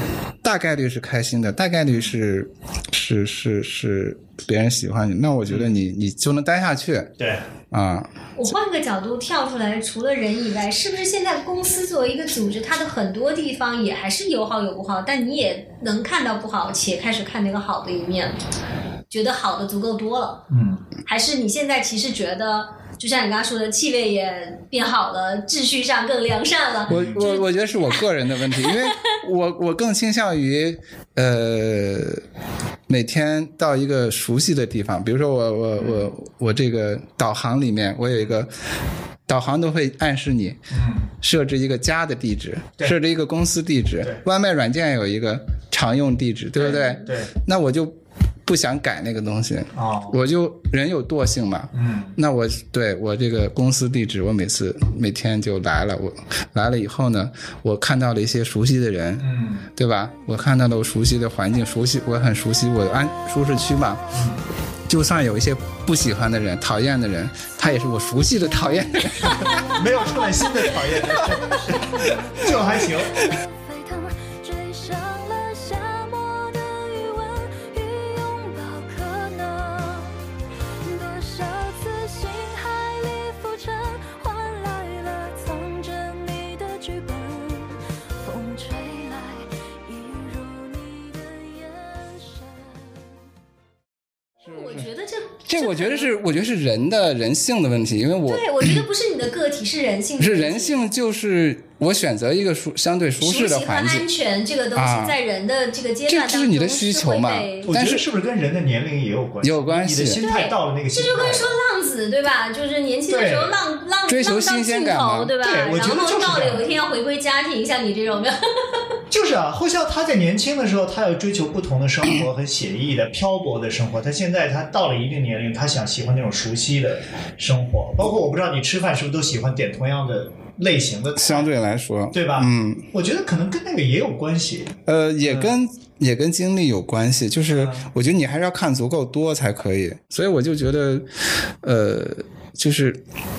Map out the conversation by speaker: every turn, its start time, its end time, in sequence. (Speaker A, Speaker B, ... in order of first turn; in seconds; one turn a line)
Speaker A: 0.4-7.1
Speaker B: 5.5-5.8
Speaker A: 7.7-8.1
Speaker C: 8.4-18.4
Speaker C: 19.1-20.4
Speaker B: 20.5-20.8
Speaker C: 21.1-28.0
Speaker A: 26.9-32.2
Speaker B: 26.9-27.2
Speaker C: 28.6-29.0
Speaker A: 32.9-38.5
Speaker B: 35.8-36.1
Speaker A: 39.3-64.0
Speaker B: 40.7-41.1
Speaker B: 46.6-47.3
Speaker B: 49.8-50.2
Speaker B: 51.7-52.1
Speaker B: 59.2-59.7
Speaker B: 64.1-64.4
Speaker A: 64.9-69.6
Speaker D: 69.5-69.8
Speaker B: 69.5-73.2
Speaker A: 70.7-72.5
Speaker D: 71.1-80.2
Speaker D: 80.8-93.1
Speaker C: 94.4-96.1
Speaker A: 94.5-94.9
Speaker A: 95.5-98.8
Speaker C: 98.3-100.8
Speaker A: 100.2-104.1
Speaker C: 103.2-107.7
Speaker A: 104.8-105.2
Speaker A: 106.1-108.0
Speaker B: 107.7-111.6
Speaker A: 109.4-110.2
Speaker C: 110.1-118.4
Speaker B: 113.1-113.6
Speaker A: 114.1-115.3
Speaker B: 115.4-116.7
Speaker B: 119.1-131.5
Speaker A: 131.2-132.9
Speaker B: 132.1-135.6
Speaker A: 134.9-143.0
Speaker B: 137.5-137.9